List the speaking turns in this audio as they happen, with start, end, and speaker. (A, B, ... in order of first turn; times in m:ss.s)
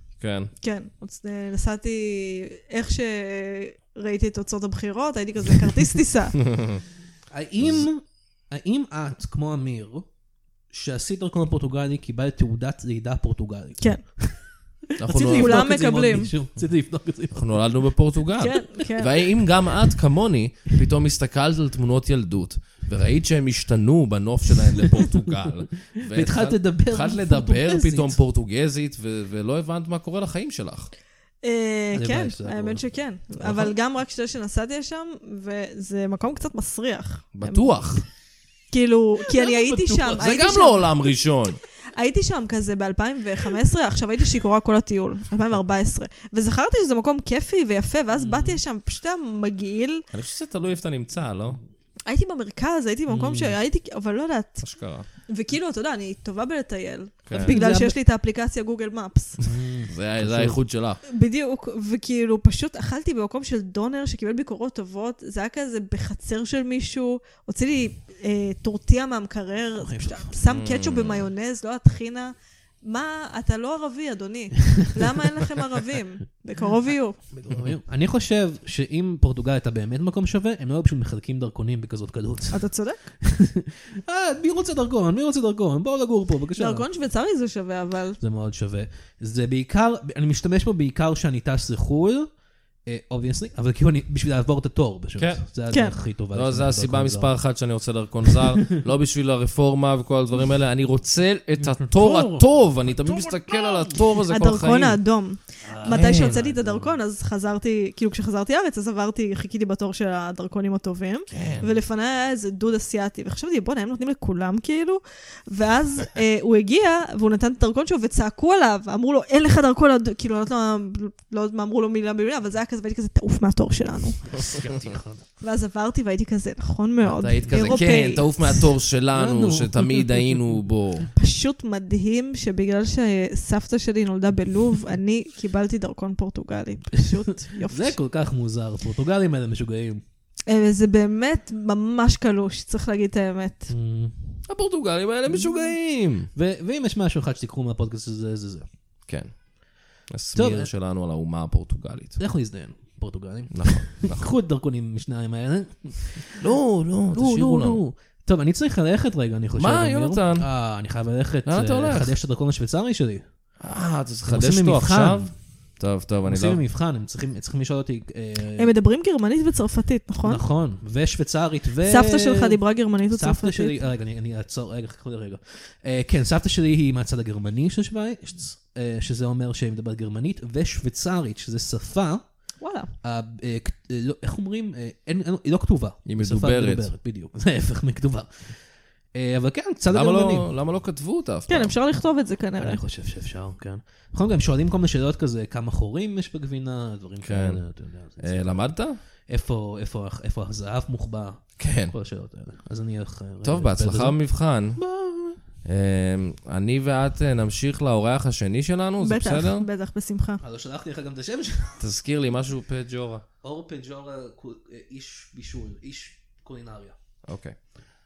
0:00.2-0:00.5 A
0:00.5-0:06.4 B
0:06.5-0:06.8 A
0:07.3-0:10.1 C
0:07.6-0:07.9 A
0:10.7-0:14.4 C
0:15.0-0:15.7 A
0:15.0-0:17.6 C
0:15.3-0:16.3 B
0:17.3-0:30.9 A
0:18.4-0:19.2 B
0:26.0-0:28.2 C
0:31.4-0:38.0 B
0:31.9-0:32.8 C
0:37.3-0:38.0 A
0:38.7-0:40.9 B
0:39.2-0:40.3 C
0:40.2-0:41.6 A
0:41.9-0:50.0 B
0:48.2-0:48.6 C
0:50.1-0:51.6 A
0:52.0-0:54.6 B
0:53.1-0:53.6 C
0:54.6-0:55.1 A
0:55.3-0:59.5 B
0:57.2-0:57.6 A
0:57.3-0:58.0 C
0:59.4-1:00.6 C
0:59.9-1:01.0 A
1:01.0-1:17.2 B
1:09.8-1:10.4 C
1:10.5-1:11.3 A
1:17.3-1:22.7 C
1:22.5-1:23.0 B
1:23.2-1:26.8 C
1:26.6-1:28.2 B
1:28.2-1:32.3 C
1:32.8-1:37.3 C
1:35.2-1:35.4 A
1:35.7-1:36.0 B
1:36.3-1:45.0 A
1:38.3-1:38.8 C
1:41.6-1:44.0 C
1:44.3-2:04.5 B
1:45.6-1:47.0 C
1:45.9-1:46.4 A
1:51.3-1:51.7 A
2:04.3-2:05.2 C
2:05.4-2:08.7 B
2:07.0-2:11.1 A
2:09.1-2:10.4 C
2:11.2-2:18.0 B
2:17.0-2:20.0 C
2:20.5-2:23.7 B
2:23.7-2:24.4 C
2:24.5-2:26.3 A
2:25.3-2:28.6 C
2:29.1-2:32.2 A
2:30.3-2:30.7 C
2:32.2-2:36.5 C
2:33.5-2:34.3 A
2:36.4-2:37.8 A
2:37.1-2:43.2 C
2:39.6-2:40.5 A
2:41.4-2:42.2 A
2:43.6-2:46.6 A
2:44.3-2:45.3 C
2:46.2-2:48.7 C
2:48.6-2:50.4 B
2:50.2-3:02.4 C
2:51.8-2:53.8 B
3:02.6-3:02.9 B
3:03.0-3:10.5 C
3:06.0-3:06.9 A
3:09.9-3:11.7 A
3:11.5-3:12.8 B
3:12.6-3:18.6 C
3:17.2-3:17.6 A
3:18.2-3:19.0 A
3:19.3-3:24.2 C
3:21.6-3:21.9 A
3:23.4-3:24.8 A
3:24.8-3:25.4 C
3:25.6-3:29.7 A
3:29.0-3:30.4 B
3:30.4-3:31.8 C
3:31.8-3:33.2 A
3:33.4-3:36.9 C
3:37.2-3:37.7 A